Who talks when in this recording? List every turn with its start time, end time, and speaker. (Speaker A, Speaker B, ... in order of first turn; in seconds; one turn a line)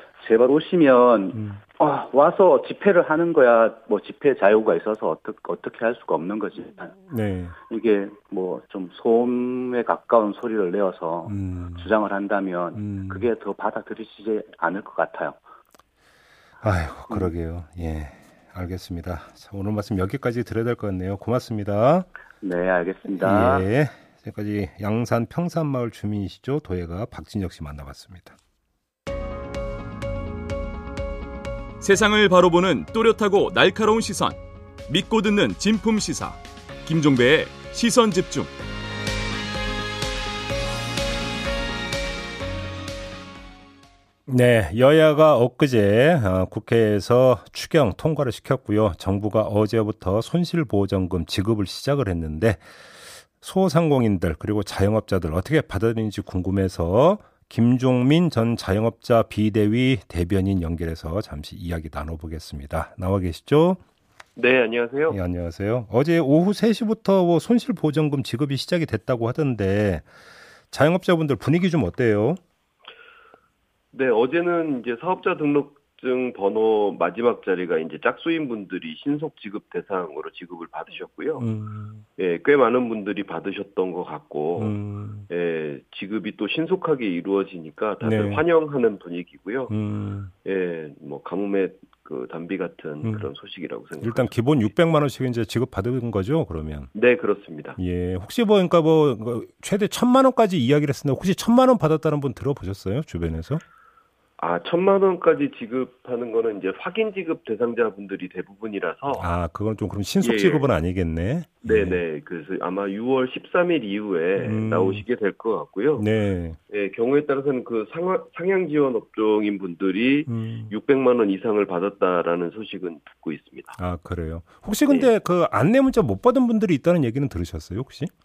Speaker A: 0.2-7.0
Speaker B: 7.1-7.5
Speaker A: 7.7-15.4
Speaker B: 11.3-11.9
Speaker B: 12.7-13.3
Speaker B: 16.6-22.1
Speaker A: 22.4-23.7
Speaker B: 23.2-28.4
Speaker C: 31.8-38.5
Speaker B: 44.3-52.6
Speaker B: 53.4-63.8
Speaker D: 64.3-65.2
Speaker B: 65.1-70.1
Speaker B: 70.7-72.4
Speaker D: 73.9-81.5
Speaker B: 81.4-82.0
Speaker D: 82.2-84.8
Speaker B: 84.6-85.3
Speaker D: 85.3-89.7
Speaker B: 88.0-88.4
Speaker B: 89.7-90.3
Speaker D: 90.4-94.3
Speaker B: 94.0-96.9
Speaker D: 96.9-97.8
Speaker B: 97.8-103.6
Speaker D: 104.4-109.2
Speaker B: 109.1-112.0
Speaker D: 110.2-110.7
Speaker D: 111.6-116.1
Speaker B: 114.4-115.0
Speaker B: 116.0-116.6
Speaker D: 116.7-123.8
Speaker B: 120.3-120.7
Speaker B: 123.8-128.1